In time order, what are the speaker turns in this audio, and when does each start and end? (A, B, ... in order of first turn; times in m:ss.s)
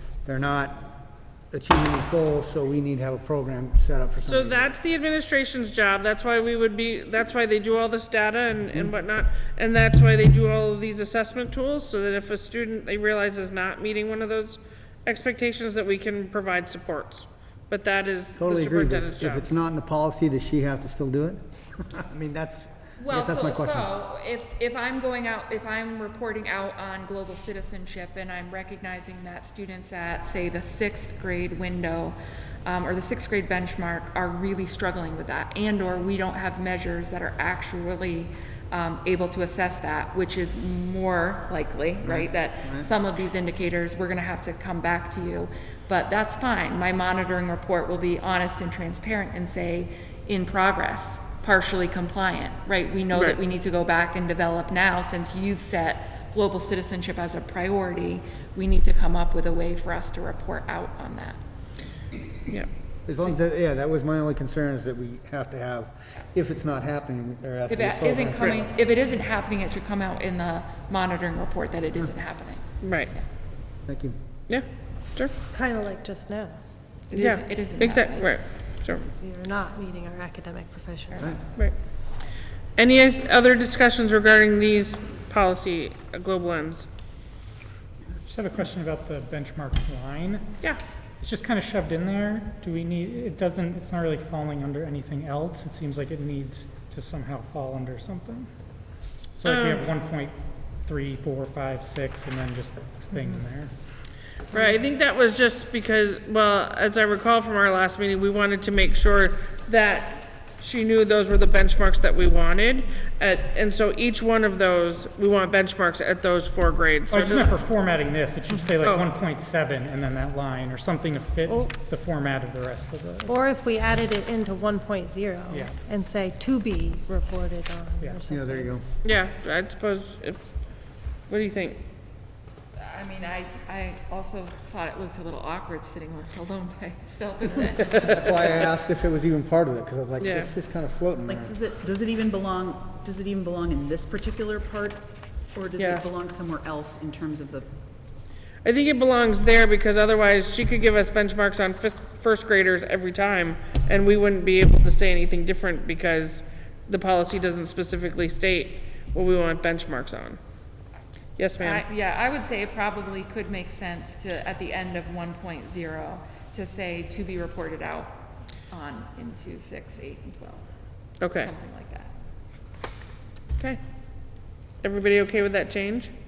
0:00.2-0:01.0 A
0:01.5-0:04.6 A
0:04.3-0:19.5 B
0:18.4-0:21.4 A
0:22.0-0:23.9 A
0:23.0-1:01.4 C
0:42.0-0:42.9 A
0:53.1-0:53.4 B
1:03.1-1:08.7 A
1:07.7-1:13.2 C
1:12.8-1:13.1 B
1:13.9-1:14.2 A
1:14.5-1:15.3 B
1:15.5-1:16.6 D
1:17.1-1:18.4 C
1:17.1-1:19.1 B
1:19.2-1:21.5 D
1:21.1-1:21.4 A
1:22.8-1:26.9 B
1:28.3-1:30.6 E
1:31.2-1:38.5 E
1:39.4-1:43.7 E
1:39.4-1:39.8 B
1:44.5-1:57.5 B
1:57.1-2:03.4 E
1:58.8-1:59.1 B
2:03.3-2:08.8 D
2:08.3-2:08.8 A
2:09.0-2:10.4 B
2:11.3-2:11.8 B
2:12.8-2:18.7 C
2:18.0-2:21.5 A
2:20.2-2:20.5 B
2:21.3-2:27.7 F
2:25.8-2:26.1 B
2:28.6-2:40.4 B
2:41.4-2:41.8 B
2:41.6-2:48.2 C
2:48.7-2:50.7 C
2:51.2-2:51.5 B
2:51.3-2:52.1 C
2:54.8-2:56.1 B